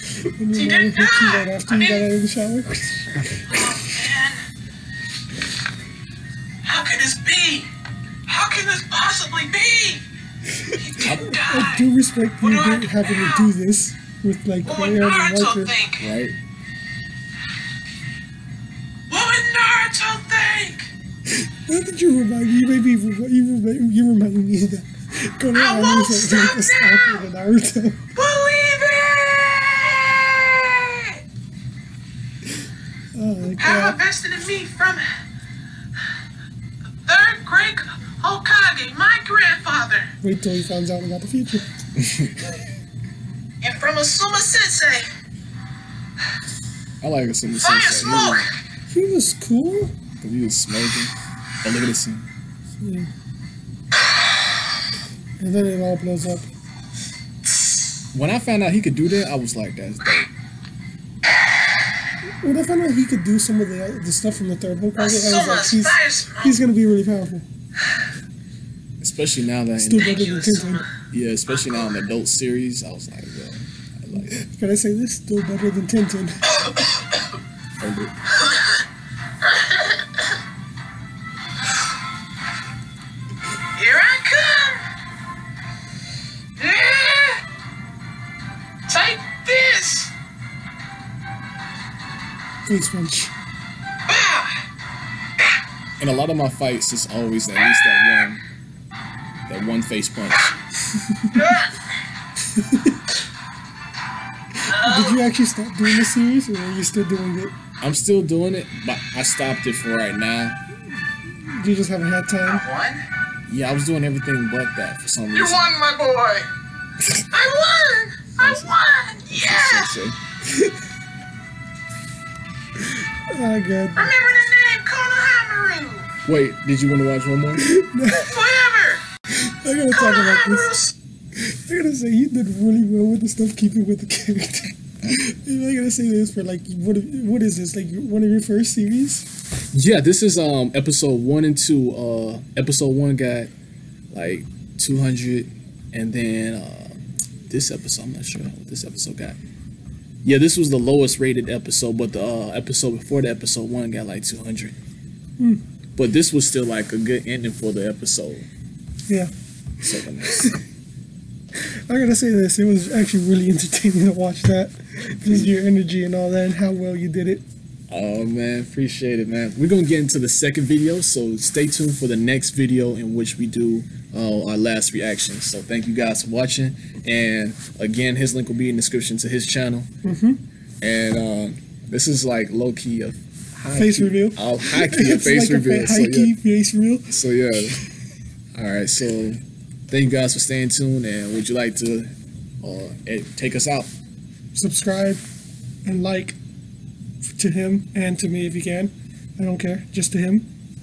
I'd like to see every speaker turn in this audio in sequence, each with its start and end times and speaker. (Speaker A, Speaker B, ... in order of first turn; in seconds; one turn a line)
Speaker A: 0.4-4.0
Speaker B: 0.5-2.1
Speaker B: 3.5-4.4
Speaker B: 6.6-7.7
Speaker B: 8.3-10.0
Speaker A: 10.6-15.8
Speaker B: 10.7-11.9
Speaker C: 11.0-11.4
Speaker B: 12.4-13.5
Speaker B: 14.6-16.1
Speaker C: 16.0-16.4
Speaker B: 19.1-20.9
Speaker A: 21.7-28.0
Speaker B: 25.5-27.2
Speaker B: 28.1-31.2
Speaker A: 33.1-34.0
Speaker B: 33.6-35.0
Speaker B: 37.1-40.1
Speaker A: 40.2-41.6
Speaker C: 42.0-42.4
Speaker B: 43.6-45.1
Speaker C: 47.0-48.5
Speaker B: 47.5-48.5
Speaker A: 48.9-50.0
Speaker C: 50.2-52.3
Speaker A: 52.8-53.1
Speaker A: 55.4-56.5
Speaker C: 58.1-60.3
Speaker A: 62.4-67.5
Speaker B: 65.0-66.6
Speaker C: 69.0-70.1
Speaker A: 69.8-70.8
Speaker B: 70.0-70.9
Speaker C: 71.1-74.4
Speaker A: 74.2-76.4
Speaker C: 77.8-78.1
Speaker B: 78.4-78.8
Speaker B: 79.4-80.0
Speaker B: 83.8-84.8
Speaker B: 86.6-87.4
Speaker B: 88.9-90.1
Speaker A: 92.7-93.3
Speaker B: 94.1-94.6
Speaker C: 96.0-98.4
Speaker C: 99.5-100.5
Speaker A: 101.1-101.4
Speaker B: 101.3-101.7
Speaker A: 102.6-103.0
Speaker B: 104.7-105.2
Speaker A: 104.7-107.5
Speaker C: 107.8-110.6
Speaker A: 111.5-112.7
Speaker B: 112.5-113.0
Speaker C: 113.5-115.7
Speaker B: 115.3-116.5
Speaker B: 117.3-120.0
Speaker C: 118.4-118.8
Speaker C: 119.3-120.2
Speaker A: 123.3-124.1
Speaker B: 124.0-126.1
Speaker C: 126.2-127.7
Speaker A: 127.6-128.4
Speaker B: 128.1-129.0
Speaker A: 129.4-130.7
Speaker B: 129.9-130.9
Speaker A: 131.5-139.3
Speaker C: 139.7-143.5
Speaker C: 144.1-149.4
Speaker C: 150.2-154.8
Speaker C: 156.0-158.5
Speaker C: 159.8-160.5
Speaker A: 161.6-167.4
Speaker C: 165.1-165.5
Speaker C: 167.9-179.9
Speaker A: 180.0-180.4
Speaker C: 180.8-186.3
Speaker A: 183.7-187.7
Speaker C: 187.1-187.8
Speaker C: 188.6-193.9
Speaker A: 194.6-195.2
Speaker A: 195.8-196.4
Speaker A: 197.2-200.5